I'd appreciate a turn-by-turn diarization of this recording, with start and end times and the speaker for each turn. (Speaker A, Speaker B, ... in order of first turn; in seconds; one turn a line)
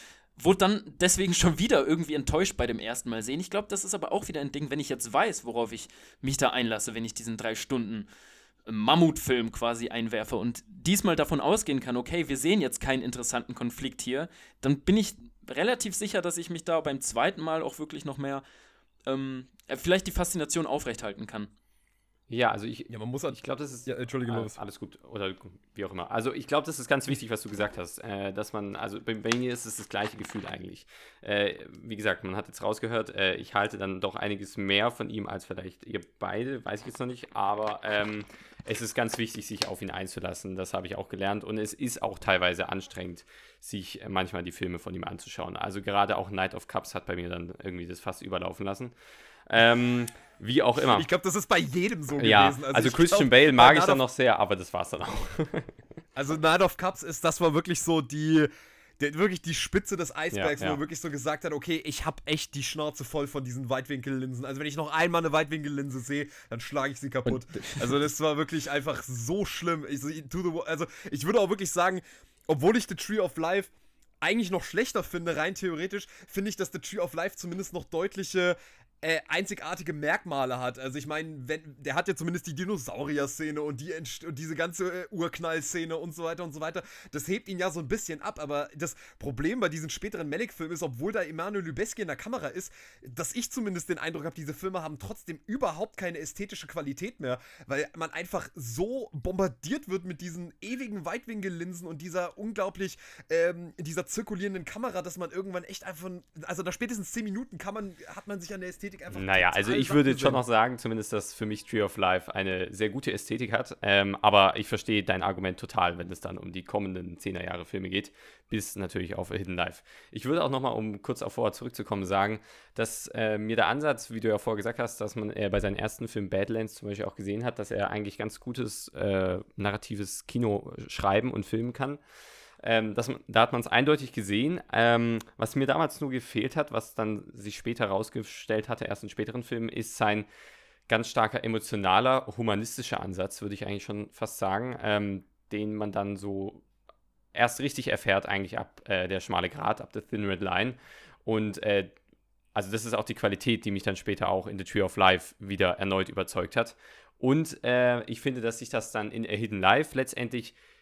Speaker A: 0.4-8.1
Speaker A: 8.7-18.4
Speaker A: 19.1-21.5
Speaker B: 22.3-48.9
Speaker C: 22.9-24.6
Speaker B: 49.5-51.1
Speaker C: 50.9-54.0
Speaker B: 52.2-55.7
Speaker C: 56.2-73.7
Speaker B: 60.3-60.8
Speaker C: 74.2-110.4
Speaker B: 109.1-132.0
Speaker B: 132.6-140.3
Speaker B: 140.9-146.6
Speaker B: 147.3-151.9
Speaker B: 152.5-160.6